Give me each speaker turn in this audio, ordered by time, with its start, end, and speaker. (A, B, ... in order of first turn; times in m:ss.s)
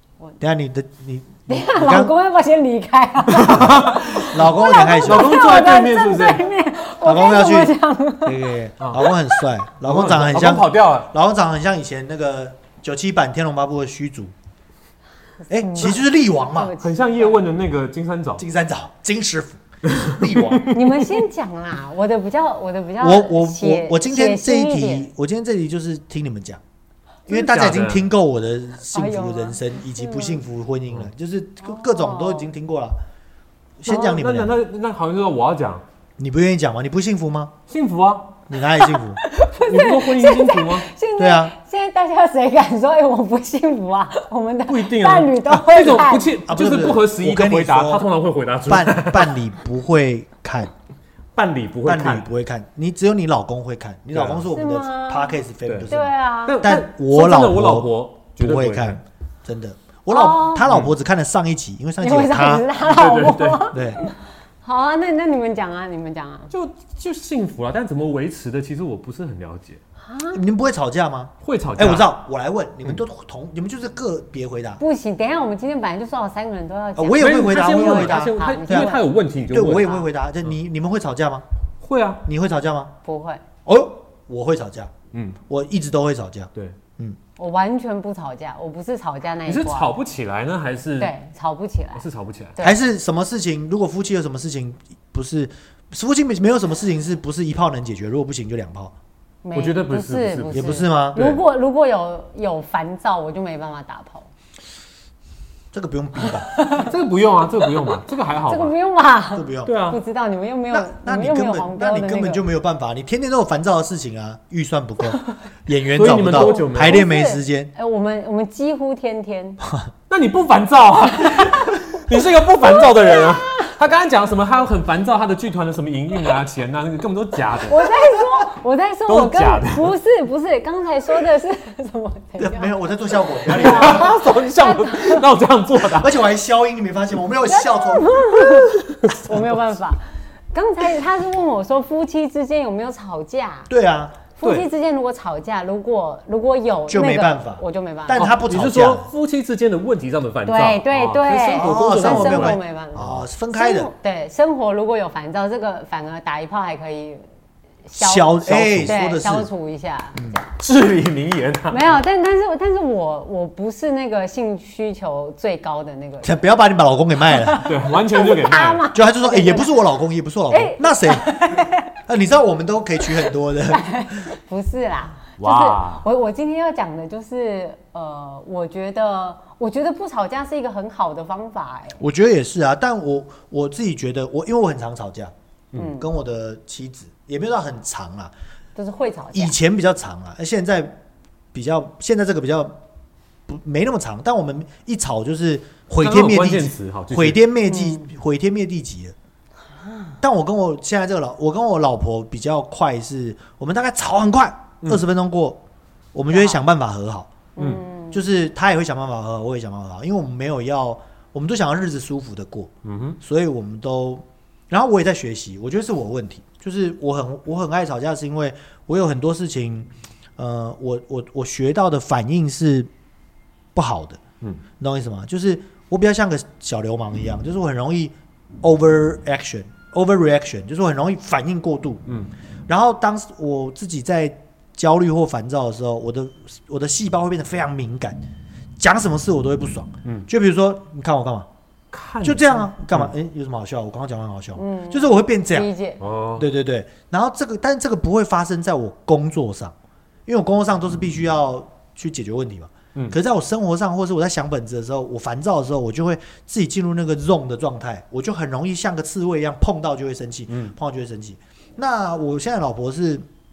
0:00.4-0:02.1 A
0:01.5-0:08.5 B
0:03.3-0:06.4 C
0:03.5-0:05.4 A
0:07.0-0:14.3 A
0:08.8-0:09.1 C
0:09.1-0:09.4 B
0:09.8-0:11.1 C
0:15.4-0:17.4 B
0:15.5-0:16.7 A
0:16.8-0:18.4 C
0:18.4-0:20.8 A
0:19.8-0:20.8 C
0:20.7-0:25.1 B
0:23.0-0:26.6 A
0:27.3-0:33.0 A
0:27.3-0:28.1 C
0:28.9-0:30.4 B
0:31.6-0:32.5 B
0:33.8-0:34.6 A
0:33.8-0:35.8 C
0:36.2-0:37.5 A
0:37.7-0:38.4 C
0:38.5-0:39.2 A
0:38.8-0:46.4 B
0:39.5-0:40.9 C
0:41.2-0:41.5 A
0:44.6-0:49.4 C
0:46.4-0:48.1 A
0:48.7-0:50.7 A
0:51.3-0:52.3 C
0:51.8-1:02.7 A
0:54.1-0:54.5 C
0:54.5-0:55.4 B
0:55.6-0:55.9 C
0:55.9-0:56.6 B
0:56.4-0:59.0 C
1:00.1-1:00.7 B
1:00.7-1:00.9 C
1:02.0-1:06.5 B
1:02.8-1:03.7 C
1:03.7-1:04.0 A
1:06.5-1:09.8 C
1:10.0-1:10.4 B
1:10.3-1:14.8 A
1:11.4-1:12.1 C
1:14.8-1:19.1 B
1:16.9-1:18.9 A
1:17.2-1:20.6 C
1:19.5-1:21.4 A
1:21.8-1:22.2 C
1:22.2-1:22.9 A
1:23.0-1:23.4 B
1:23.6-1:24.9 A
1:25.1-1:25.4 C
1:25.5-1:27.2 A
1:27.4-1:29.9 B
1:29.4-1:31.1 C
1:31.0-1:32.0 B
1:32.0-1:32.6 C
1:32.6-1:38.9 A
1:39.4-1:44.3 B
1:39.5-1:41.4 C
1:40.5-1:41.2 A
1:45.7-1:46.6 A
1:46.4-1:46.9 B
1:46.8-1:48.7 C
1:48.5-1:52.5 B
1:49.3-1:49.7 A
1:49.6-1:50.0 C
1:50.7-1:57.7 A
1:55.9-1:57.0 C
1:56.1-1:59.6 B
2:00.1-2:07.8 C
2:01.4-2:01.8 B
2:02.7-2:03.7 B
2:07.7-2:12.8 B
2:09.1-2:09.9 C
2:12.4-2:14.2 A
2:13.5-2:15.2 B
2:13.5-2:16.2 C
2:15.9-2:18.5 A
2:17.4-2:20.0 B
2:18.9-2:19.2 C
2:20.5-2:23.7 B
2:23.7-2:24.2 A
2:24.4-2:28.3 B
2:24.4-2:24.7 C
2:26.9-2:29.1 A
2:28.1-2:33.2 C
2:30.4-2:37.2 B
2:31.5-2:33.9 A
2:37.8-2:40.5 B
2:37.9-2:39.5 A
2:38.5-2:39.0 C
2:40.6-2:42.0 C
2:41.7-2:46.3 B
2:46.2-2:47.7 A
2:47.2-2:49.8 B
2:47.6-2:48.9 C
2:48.9-2:54.2 A
2:50.5-2:51.9 B
2:53.0-3:02.0 B
2:55.4-2:56.0 C
3:02.0-3:08.3 A
3:05.7-3:06.1 B
3:08.8-3:09.5 B
3:09.3-3:11.0 A
3:11.5-3:12.8 A
3:13.5-3:19.1 A
3:16.0-3:17.4 C
3:17.7-3:18.1 B
3:19.8-3:20.1 B
3:20.2-3:25.6 A
3:26.1-3:27.3 A
3:26.3-3:26.6 B
3:27.6-3:28.2 B
3:27.6-3:27.8 C
3:28.1-3:42.9 A
3:32.8-3:33.2 C
3:43.7-3:44.2 A
3:44.8-3:52.0 A
3:52.1-3:52.3 C
3:52.7-3:58.2 A
3:58.8-4:01.5 A
4:01.9-4:03.1 C
4:02.2-4:05.7 A
4:04.6-4:06.0 B
4:06.0-4:06.4 C
4:06.4-4:09.7 A
4:10.3-4:23.3 A
4:20.5-4:20.8 C